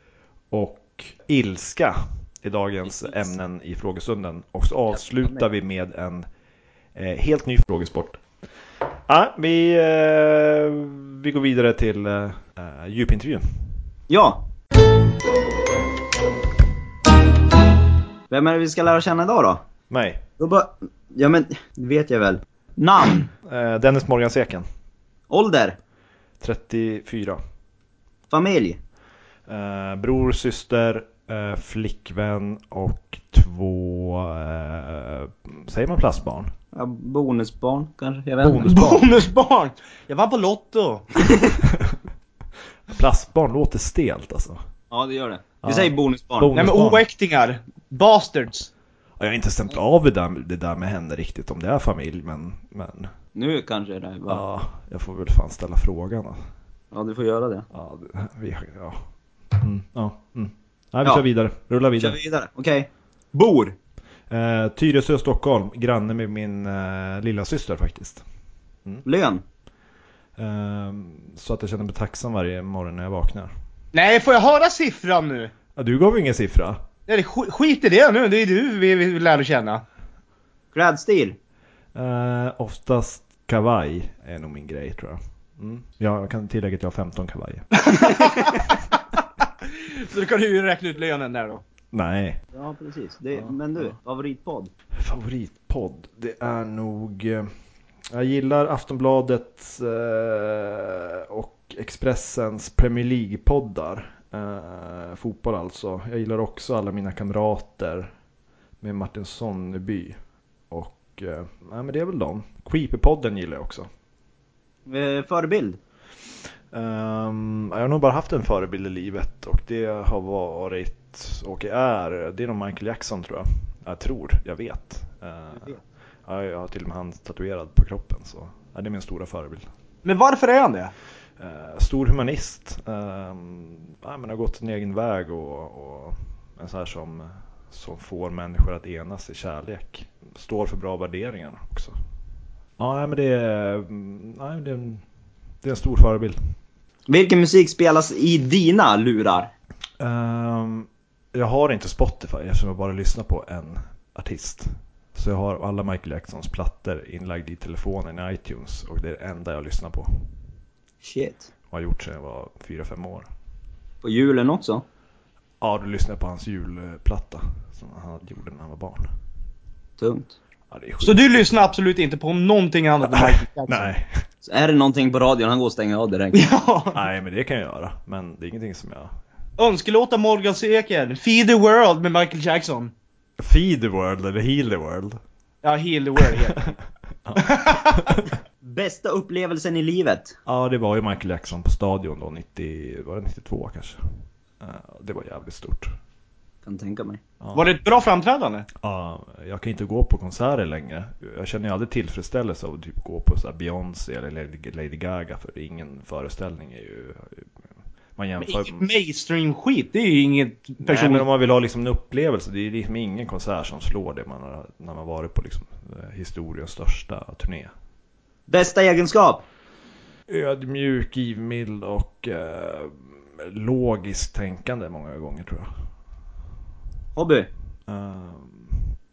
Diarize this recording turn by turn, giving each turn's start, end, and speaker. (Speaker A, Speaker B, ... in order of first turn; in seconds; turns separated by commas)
Speaker A: 0.5-6.2, Speaker B: 5.2-5.4, Speaker A: 6.9-8.2, Speaker A: 9.1-13.4, Speaker B: 14.1-14.4, Speaker B: 18.3-19.6, Speaker A: 19.9-20.2, Speaker B: 20.4-23.3, Speaker A: 23.4-24.6, Speaker B: 25.3-25.8, Speaker A: 26.4-27.4, Speaker B: 28.3-28.8, Speaker A: 29.5-36.5, Speaker B: 36.7-38.7, Speaker A: 38.4-39.1, Speaker C: 38.6-41.3, Speaker A: 41.7-42.0, Speaker A: 42.9-44.6, Speaker B: 44.9-46.5, Speaker A: 45.6-47.0, Speaker C: 46.5-48.7, Speaker A: 49.2-53.1, Speaker B: 53.3-54.4, Speaker A: 54.3-56.4, Speaker B: 56.9-57.7, Speaker A: 57.7-59.0, Speaker A: 59.5-62.2, Speaker B: 62.0-63.7, Speaker A: 64.3-68.2, Speaker B: 69.0-69.4, Speaker A: 70.4-73.5, Speaker C: 73.9-75.5, Speaker A: 75.8-76.8, Speaker C: 77.1-79.8, Speaker B: 80.7-81.3, Speaker A: 81.9-87.7, Speaker C: 87.8-88.7, Speaker C: 89.6-91.6, Speaker A: 91.9-92.4, Speaker B: 92.5-94.7, Speaker A: 93.3-93.9, Speaker A: 94.9-97.5, Speaker A: 98.1-108.1, Speaker A: 108.8-110.2, Speaker A: 110.7-113.9, Speaker B: 114.8-115.8, Speaker A: 116.7-125.7, Speaker A: 126.2-129.7, Speaker C: 130.0-130.9, Speaker A: 131.4-141.9, Speaker A: 142.8-145.0, Speaker A: 145.6-146.4, Speaker B: 147.1-149.5, Speaker A: 150.0-160.3, Speaker B: 161.0-161.5, Speaker A: 161.7-163.3, Speaker B: 164.0-164.8, Speaker A: 165.6-169.1, Speaker B: 170.0-170.3, Speaker A: 170.7-171.5, Speaker C: 171.0-173.9, Speaker A: 173.0-174.2, Speaker B: 174.4-176.4, Speaker C: 176.3-177.0, Speaker A: 176.9-179.1, Speaker C: 179.6-182.9, Speaker A: 183.4-185.2, Speaker C: 185.6-186.7, Speaker A: 187.2-188.3, Speaker C: 187.4-188.1, Speaker B: 188.6-190.4, Speaker A: 190.4-194.0, Speaker A: 194.6-195.9, Speaker B: 196.6-197.2, Speaker A: 197.4-197.7, Speaker C: 197.5-198.7, Speaker A: 198.8-207.5, Speaker A: 208.2-208.9, Speaker C: 208.4-211.2, Speaker A: 210.8-217.7, Speaker B: 218.5-219.4, Speaker A: 220.3-225.8, Speaker B: 227.2-227.5, Speaker A: 227.9-228.9